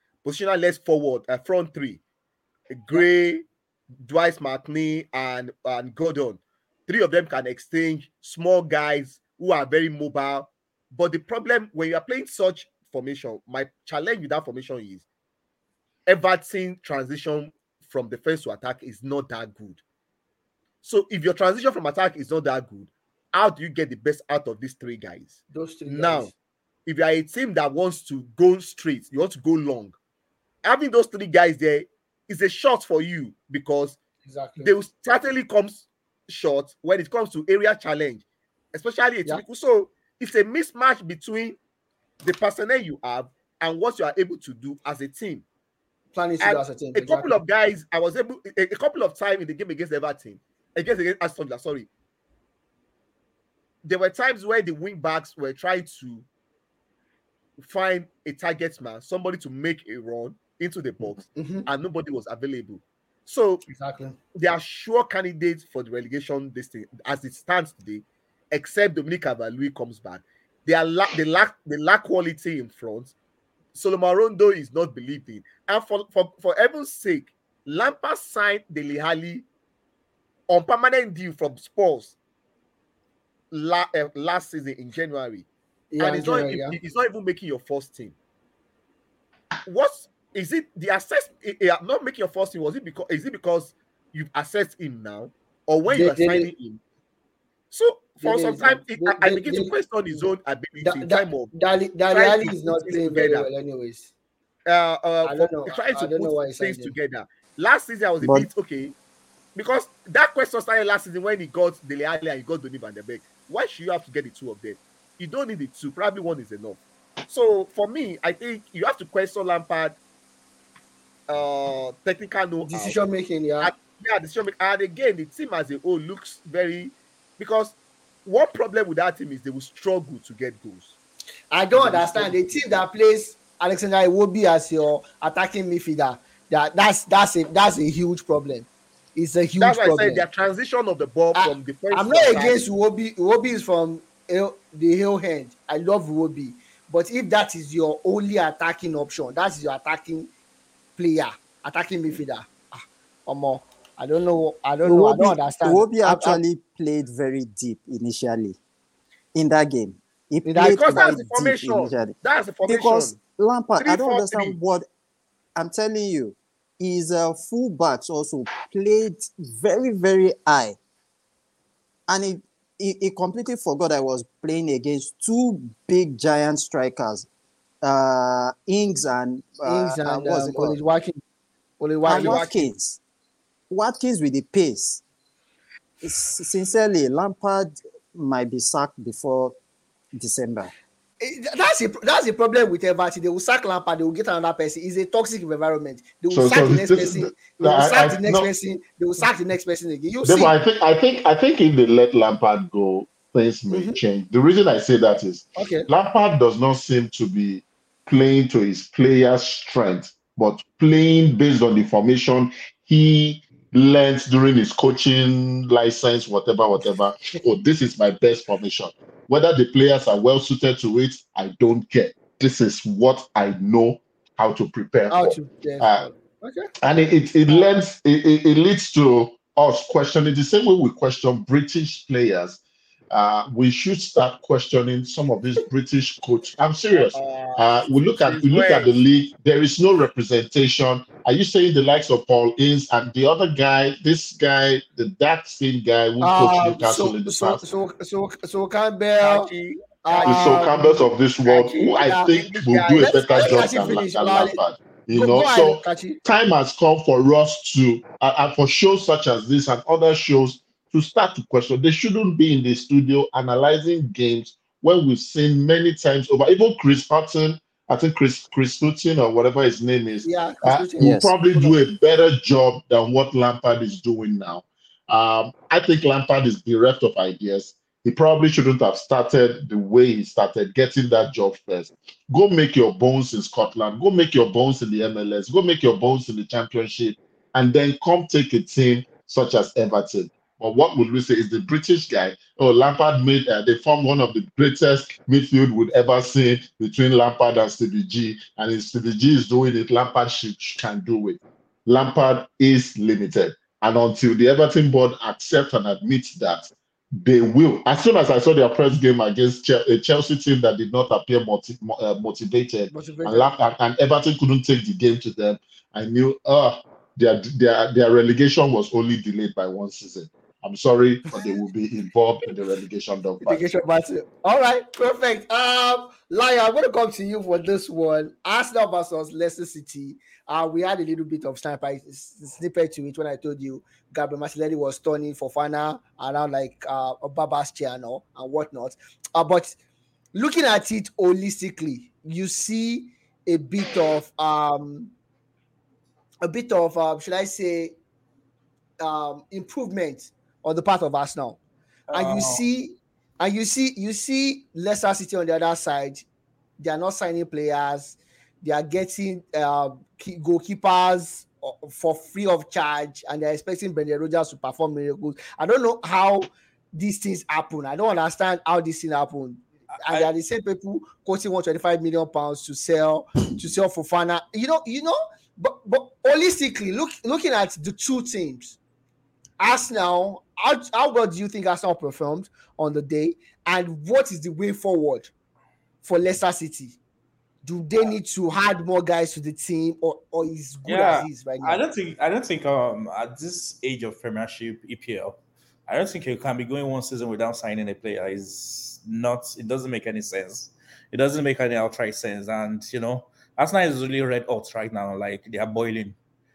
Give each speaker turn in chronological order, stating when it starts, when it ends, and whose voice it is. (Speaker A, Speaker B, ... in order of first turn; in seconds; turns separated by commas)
Speaker A: 0.2-2.0, Speaker A: 2.7-3.5, Speaker A: 4.0-15.1, Speaker A: 16.1-19.8, Speaker A: 20.8-26.3, Speaker B: 25.5-26.3, Speaker A: 26.9-29.9, Speaker A: 30.6-34.0, Speaker B: 34.2-34.7, Speaker A: 34.6-41.6, Speaker A: 42.2-45.4, Speaker B: 46.1-47.4, Speaker A: 46.4-51.9, Speaker A: 53.8-56.3, Speaker A: 57.6-63.6, Speaker B: 61.4-61.7, Speaker B: 63.6-64.2, Speaker A: 64.3-73.1, Speaker A: 73.7-79.5, Speaker A: 80.5-82.2, Speaker A: 83.5-85.5, Speaker B: 85.9-86.8, Speaker A: 86.0-88.2, Speaker A: 89.7-96.8, Speaker B: 95.9-96.5, Speaker A: 97.7-101.5, Speaker B: 98.2-100.3, Speaker B: 100.8-104.1, Speaker A: 102.1-103.5, Speaker A: 104.7-109.0, Speaker B: 105.2-107.0, Speaker C: 108.2-108.5, Speaker A: 109.5-120.0, Speaker A: 121.3-123.0, Speaker B: 122.7-123.7, Speaker A: 123.6-130.9, Speaker B: 131.5-140.2, Speaker A: 131.7-132.8, Speaker A: 139.6-142.6, Speaker B: 141.3-150.3, Speaker B: 151.0-156.4, Speaker C: 154.8-158.6, Speaker C: 159.3-164.9, Speaker B: 160.4-161.1, Speaker A: 160.6-163.2, Speaker A: 163.8-164.6, Speaker C: 165.6-170.8, Speaker C: 172.1-177.3, Speaker C: 177.8-180.8, Speaker B: 179.7-181.2, Speaker B: 181.8-182.4, Speaker A: 182.1-182.7, Speaker C: 182.1-183.0, Speaker C: 183.7-185.0, Speaker C: 186.0-189.5, Speaker C: 190.2-190.7, Speaker B: 191.2-200.5, Speaker D: 196.3-198.5, Speaker D: 200.2-226.1, Speaker B: 203.7-204.0, Speaker B: 205.6-205.9, Speaker B: 225.1-226.7, Speaker D: 226.8-232.6, Speaker D: 233.1-247.6, Speaker A: 236.9-239.0, Speaker B: 246.2-249.5, Speaker A: 249.2-250.7, Speaker B: 250.0-252.3, Speaker D: 250.2-323.6, Speaker A: 251.5-254.0, Speaker B: 253.0-254.6, Speaker B: 255.1-256.2, Speaker B: 270.2-271.8, Speaker C: 271.0-271.3, Speaker B: 312.9-313.5, Speaker B: 323.4-339.8, Speaker B: 340.3-345.1, Speaker B: 346.4-347.9, Speaker B: 349.0-351.6, Speaker E: 352.1-352.6, Speaker B: 352.1-356.2, Speaker B: 356.8-378.8, Speaker E: 369.9-370.3, Speaker B: 379.6-385.3, Speaker B: 386.0-387.0, Speaker B: 387.6-391.8, Speaker E: 390.9-406.2